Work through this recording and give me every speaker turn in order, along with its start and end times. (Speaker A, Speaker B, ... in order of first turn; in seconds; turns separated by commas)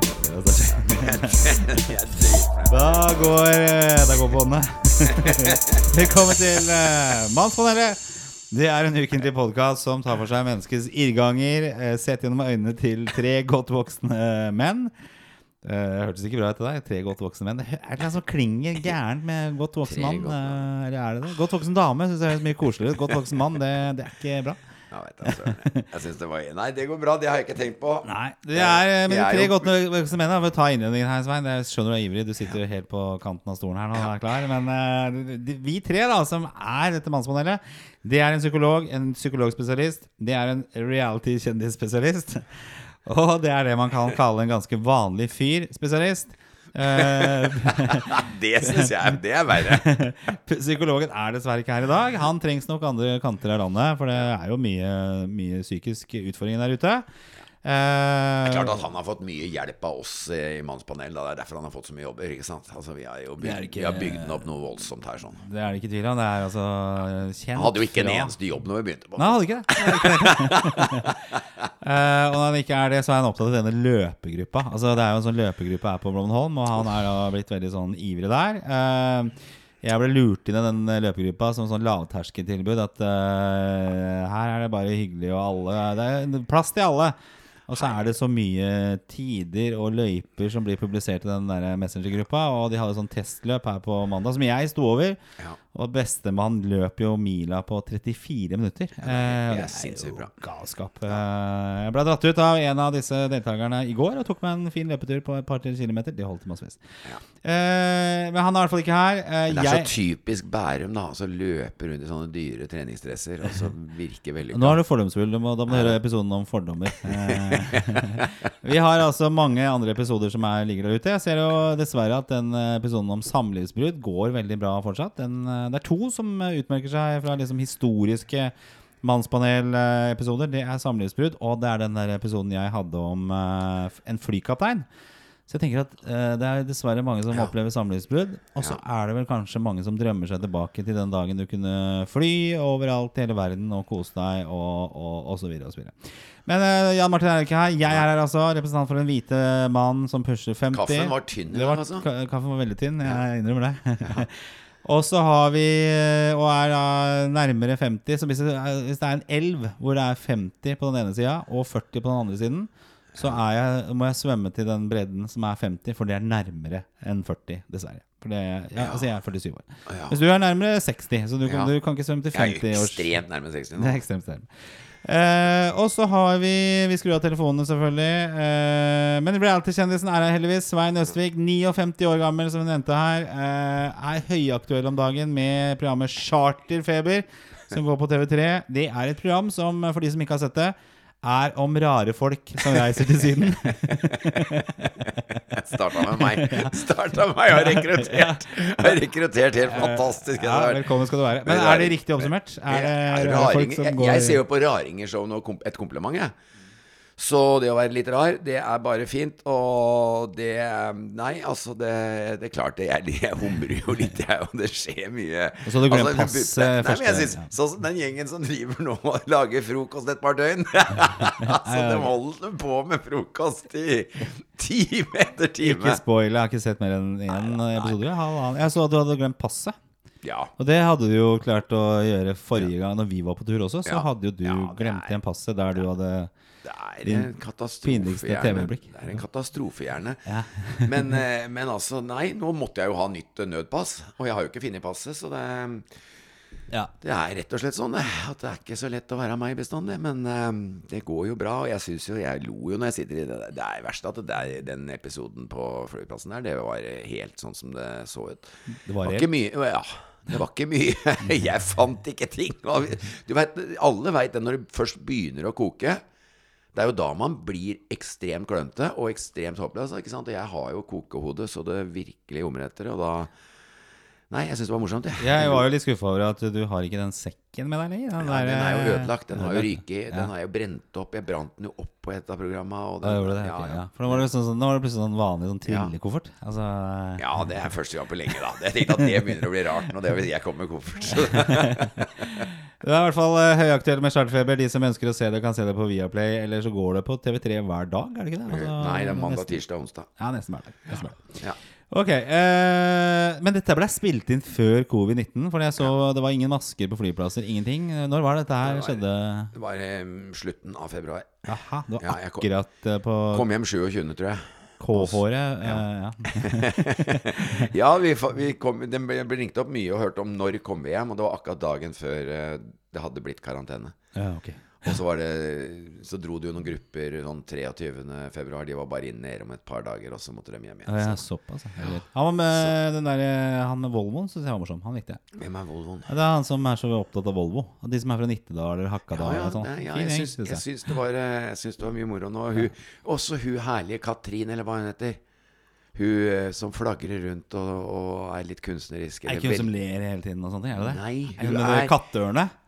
Speaker A: 0.2-1.9, Speaker B: 0.7-2.7, Speaker A: 2.7-14.9, Speaker B: 5.1-5.6, Speaker A: 15.6-24.6, Speaker B: 19.9-20.6, Speaker B: 24.9-29.7, Speaker A: 25.2-25.9, Speaker A: 28.0-49.1, Speaker B: 46.9-49.9, Speaker A: 49.6-57.0, Speaker A: 57.6-58.8, Speaker B: 58.4-65.4, Speaker A: 63.4-64.4, Speaker A: 65.4-68.3, Speaker B: 67.5-71.4, Speaker A: 69.2-71.2, Speaker A: 71.8-87.2, Speaker A: 87.7-95.2, Speaker A: 95.7-109.9, Speaker B: 99.0-100.3, Speaker B: 109.5-114.8, Speaker A: 114.5-134.8, Speaker B: 115.7-116.0, Speaker B: 117.0-118.3, Speaker A: 135.5-173.1, Speaker B: 150.7-152.1, Speaker B: 169.9-170.2, Speaker B: 171.4-171.7, Speaker B: 172.3-174.0, Speaker A: 173.8-174.5, Speaker A: 175.0-196.7, Speaker B: 193.8-200.9, Speaker A: 197.5-199.0, Speaker A: 199.6-204.4, Speaker B: 201.4-206.3, Speaker B: 207.2-226.0, Speaker A: 215.6-217.5, Speaker A: 221.2-222.1, Speaker A: 225.6-229.8, Speaker B: 227.3-228.0, Speaker B: 230.2-230.5, Speaker A: 230.6-236.3, Speaker B: 233.8-235.1, Speaker B: 236.6-240.2, Speaker A: 237.0-237.3, Speaker A: 237.8-239.2, Speaker A: 240.2-241.1, Speaker B: 240.8-245.9, Speaker B: 247.0-258.5, Speaker A: 258.7-259.3, Speaker B: 259.0-266.0, Speaker B: 266.7-273.3, Speaker B: 274.3-275.6, Speaker A: 275.2-280.3, Speaker B: 278.2-284.2, Speaker A: 283.0-287.2, Speaker B: 285.6-285.9, Speaker B: 287.2-292.4, Speaker A: 291.4-299.6, Speaker B: 298.5-300.1, Speaker A: 300.2-301.4, Speaker A: 301.9-309.5, Speaker B: 308.6-309.0, Speaker B: 309.5-311.5, Speaker A: 311.5-313.4, Speaker B: 312.0-312.5, Speaker B: 313.3-323.9, Speaker A: 314.8-317.7, Speaker A: 324.1-324.8, Speaker B: 324.8-331.2, Speaker A: 330.9-335.2, Speaker B: 331.8-332.7, Speaker B: 335.3-336.1, Speaker A: 336.1-340.6, Speaker B: 339.1-345.2, Speaker B: 345.9-349.7, Speaker A: 349.2-352.5, Speaker B: 350.8-351.9